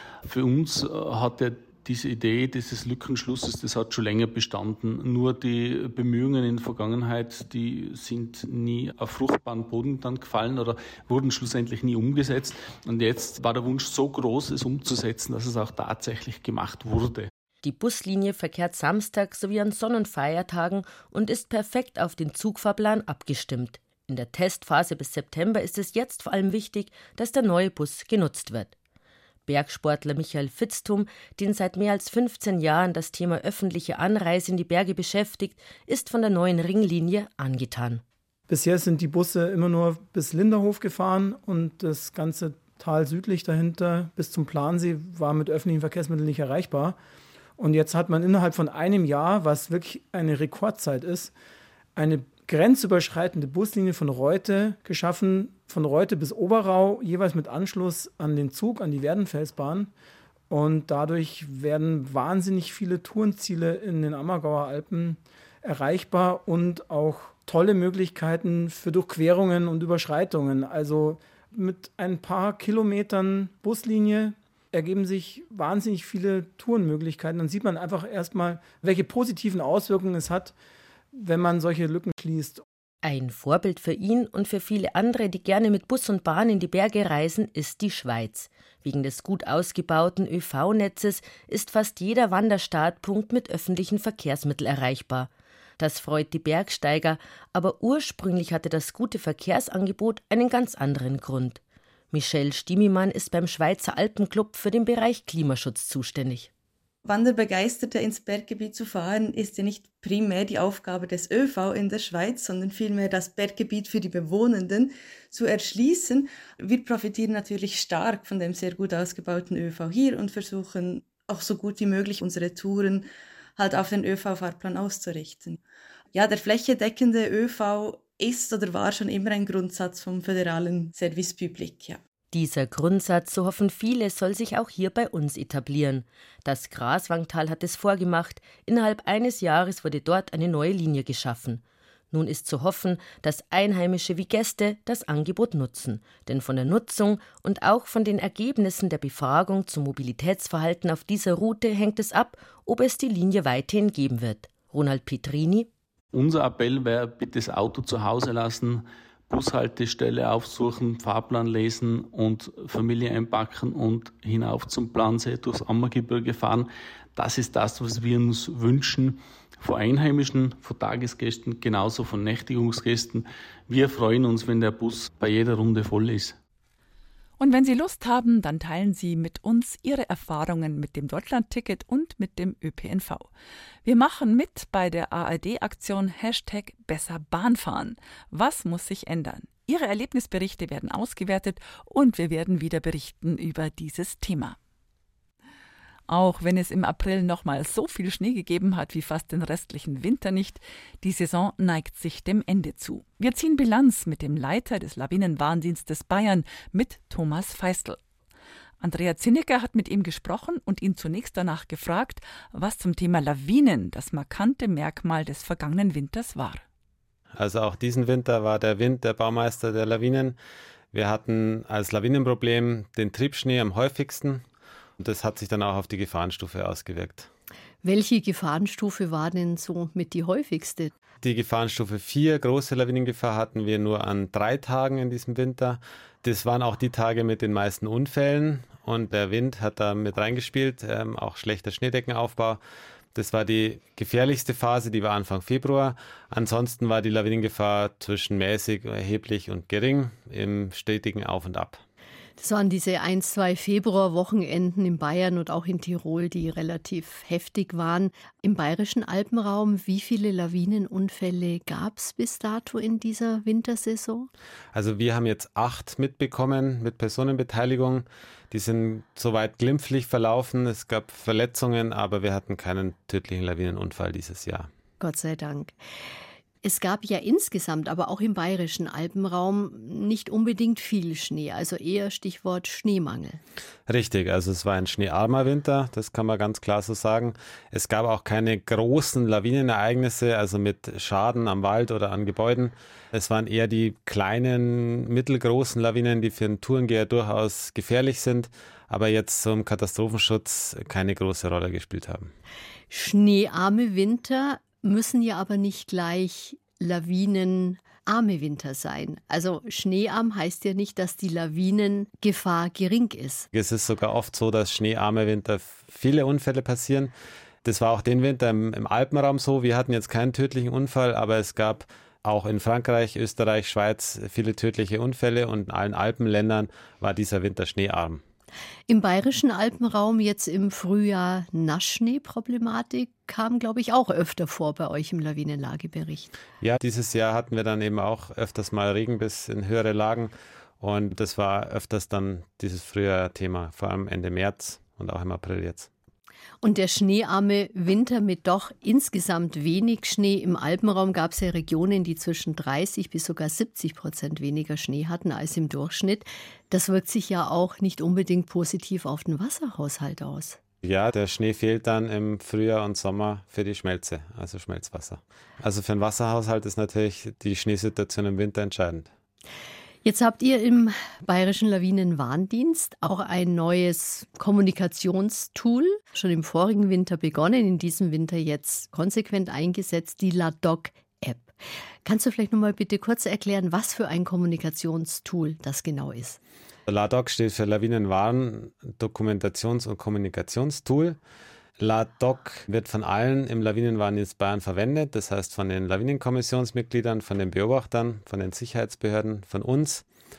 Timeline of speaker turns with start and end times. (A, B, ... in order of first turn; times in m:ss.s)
0:00.2-0:17.3 A
0:17.6-0:28.8 B
0:29.5-0:38.0 B
0:38.5-0:47.0 C
0:47.6-0:51.3 C
0:52.0-0:59.9 C
1:00.5-1:20.5 C
1:21.1-1:22.6 C
1:23.0-1:41.6 B
1:42.1-1:46.5 B
1:47.0-2:05.6 D
2:06.1-2:12.0 D
2:12.3-2:21.6 B
2:22.1-2:35.7 B
2:36.1-2:56.4 A
2:57.4-3:03.3 E
3:03.8-3:14.6 E
3:16.1-3:28.0 E
3:28.8-3:36.6 E
3:37.3-3:40.4 F
3:40.9-3:44.4 F
3:45.0-3:47.3 F
3:47.8-3:50.9 G
3:51.2-4:02.6 F
4:03.1-4:11.8 F
4:12.4-4:24.3 G
4:24.7-4:34.7 F
4:35.0-4:35.8 G
4:36.6-4:43.4 G
4:43.9-5:02.3 F
5:02.9-5:13.5 G
5:13.5-5:17.1 F
5:17.6-5:28.2 F
5:28.9-5:36.3 G
5:36.6-5:45.9 F
5:46.6-6:00.6 G
6:00.8-6:09.1 F
6:10.0-6:21.5 G
6:22.0-6:26.4 G
6:26.9-6:31.2 F
6:31.8-6:40.0 F